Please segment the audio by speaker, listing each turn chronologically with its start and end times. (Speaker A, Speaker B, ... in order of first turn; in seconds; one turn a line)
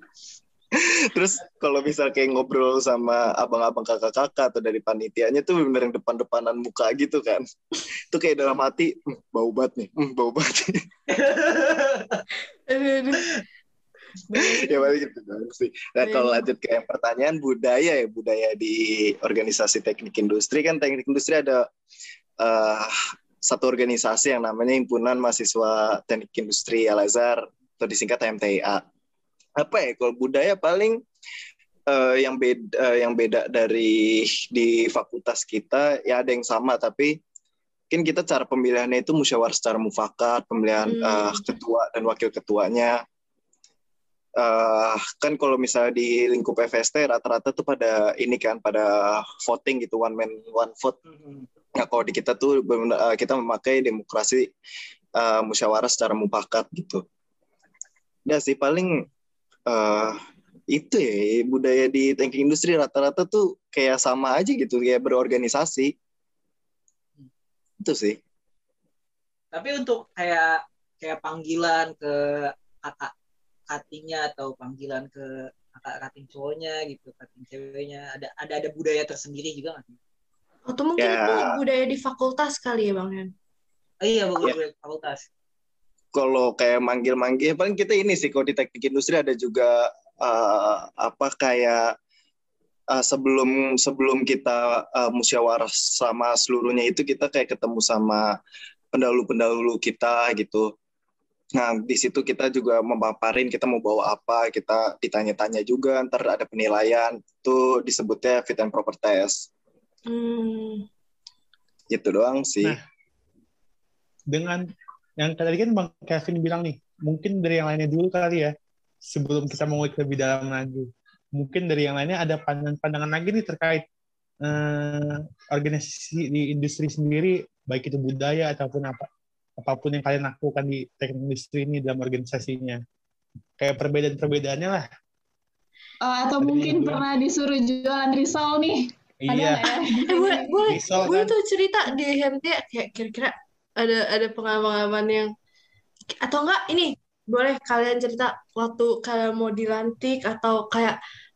Speaker A: 0.7-7.4
Speaker A: 8.1-10.8
Speaker B: 11.1-12.2
Speaker C: 12.7-13.3
Speaker C: 14.3-14.9
Speaker A: 14.4-21.6
Speaker C: 16.0-16.4
Speaker A: 22.4-22.9
Speaker A: 23.4-28.8
Speaker A: 29.6-31.0
Speaker A: 31.9-37.2
Speaker A: 37.9-43.0
Speaker C: 40.9-41.5
Speaker A: 44.4-51.0
Speaker B: 51.1-51.5
Speaker A: 51.8-54.5
Speaker A: 55.2-57.0
Speaker A: 58.3-59.0
Speaker A: 59.7-60.2
Speaker A: 60.7-65.9
Speaker A: 67.8-68.2
Speaker B: 69.5-73.1
Speaker B: 73.7-80.0
Speaker C: 80.7-83.3
Speaker A: 81.0-81.5
Speaker B: 84.0-85.2
Speaker A: 86.1-91.9
Speaker A: 92.9-98.3
Speaker A: 98.9-100.7
Speaker A: 101.5-109.5
Speaker C: 110.1-110.8
Speaker A: 111.9-112.8
Speaker D: 114.3-114.6
Speaker D: 115.2-118.5
Speaker D: 119.1-123.8
Speaker D: 124.4-129.1
Speaker D: 129.6-132.8
Speaker D: 133.6-134.8
Speaker E: 136.0-140.5
Speaker D: 136.4-137.0
Speaker D: 139.2-139.7
Speaker C: 140.1-145.3
Speaker D: 140.7-141.3
Speaker C: 146.2-151.0